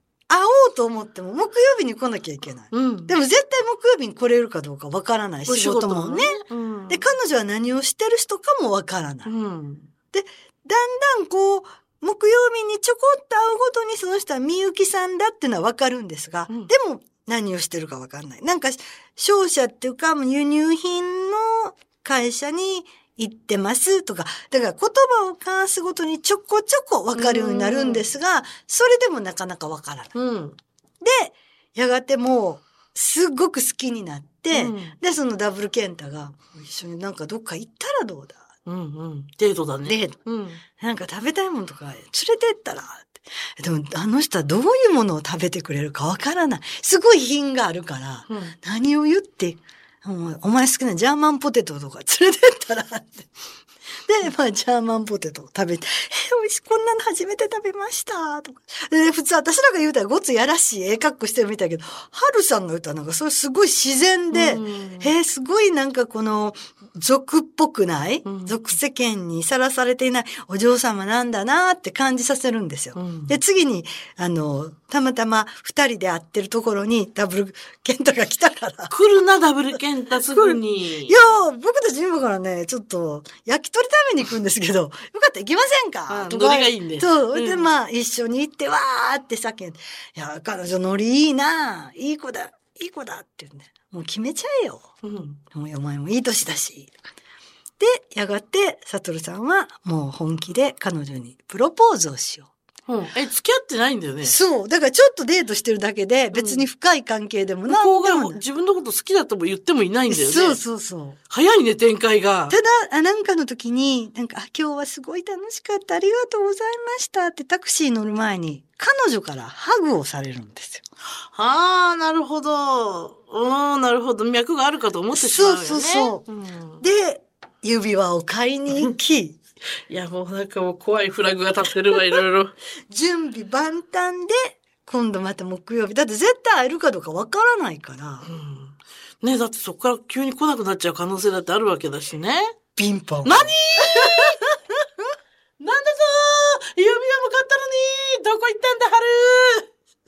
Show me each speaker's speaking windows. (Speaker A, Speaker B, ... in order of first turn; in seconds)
Speaker A: 0.3-9.3, 10.1-30.1, 31.0-38.4, 39.9-40.2, 40.7-53.3, 54.0-78.9, 80.2-94.9, 95.5-96.9, 97.8-102.5, 104.2-108.4, 110.1-111.2, 112.5-120.8, 125.1-126.2, 126.8-129.4, 132.9-138.2, 142.8-144.8
Speaker B: 2.7-3.1, 5.5-7.1, 9.2-9.9, 27.1-28.1, 30.1-30.6, 34.5-35.0, 38.6-40.6, 48.3-48.5, 64.3-65.1, 68.2-68.5, 73.0-73.4, 78.9-81.2, 86.1-87.7, 95.0-95.4, 102.9-104.3, 106.3-106.6, 107.7-110.6, 111.3-112.5, 121.3-126.8, 129.9-132.6, 138.2-142.6, 143.2-144.4, 145.6-149.7